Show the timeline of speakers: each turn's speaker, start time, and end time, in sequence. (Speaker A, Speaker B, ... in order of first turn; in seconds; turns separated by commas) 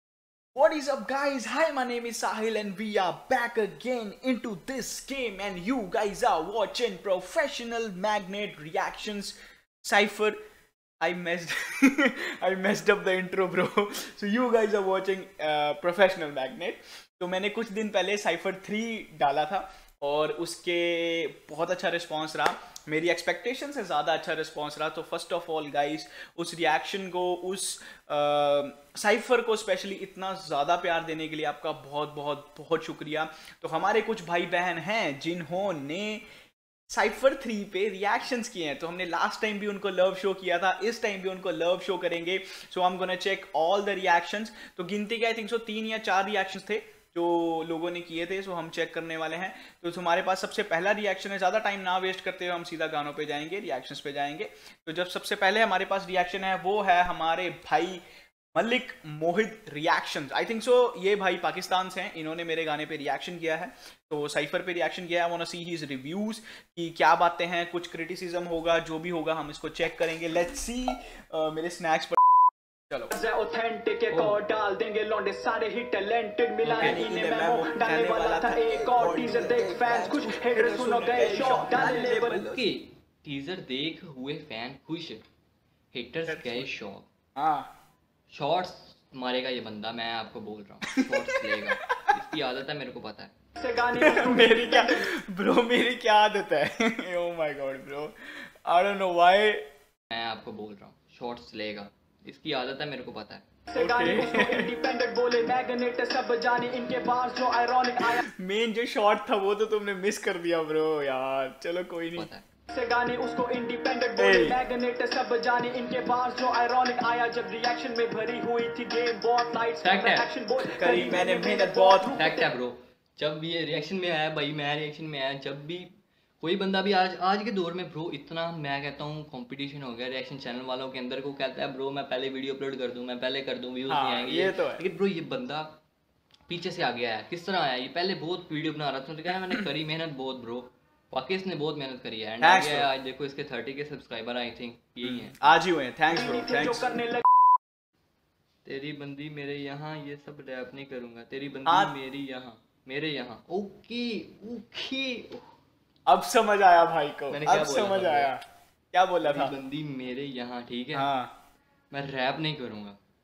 Speaker A: 0.5-10.4, Speaker A: 11.0-36.2, Speaker A: 36.9-58.0, Speaker A: 58.5-72.2, Speaker B: 73.1-82.5, Speaker C: 74.1-74.4, Speaker A: 76.6-82.7, Speaker C: 76.7-77.0, Speaker C: 82.4-85.2, Speaker C: 85.9-87.1, Speaker A: 86.3-86.7, Speaker A: 87.4-87.7, Speaker C: 88.3-93.3, Speaker A: 90.9-91.4, Speaker B: 93.6-95.0, Speaker A: 93.9-99.7, Speaker C: 100.1-103.4, Speaker B: 103.7-108.2, Speaker A: 103.8-104.7, Speaker A: 108.0-112.3, Speaker C: 112.2-112.4, Speaker B: 112.7-122.2, Speaker A: 114.2-114.6, Speaker C: 119.8-120.3, Speaker A: 120.7-122.5, Speaker C: 122.2-125.9, Speaker C: 126.4-135.8, Speaker A: 133.9-134.8, Speaker C: 136.5-145.3, Speaker A: 142.4-142.9, Speaker A: 145.0-147.0, Speaker B: 146.1-147.2, Speaker C: 148.6-155.5, Speaker A: 151.7-151.9, Speaker A: 156.1-158.4, Speaker C: 157.3-158.3, Speaker A: 158.9-159.5, Speaker C: 159.2-161.1, Speaker A: 160.9-161.3, Speaker C: 161.9-163.0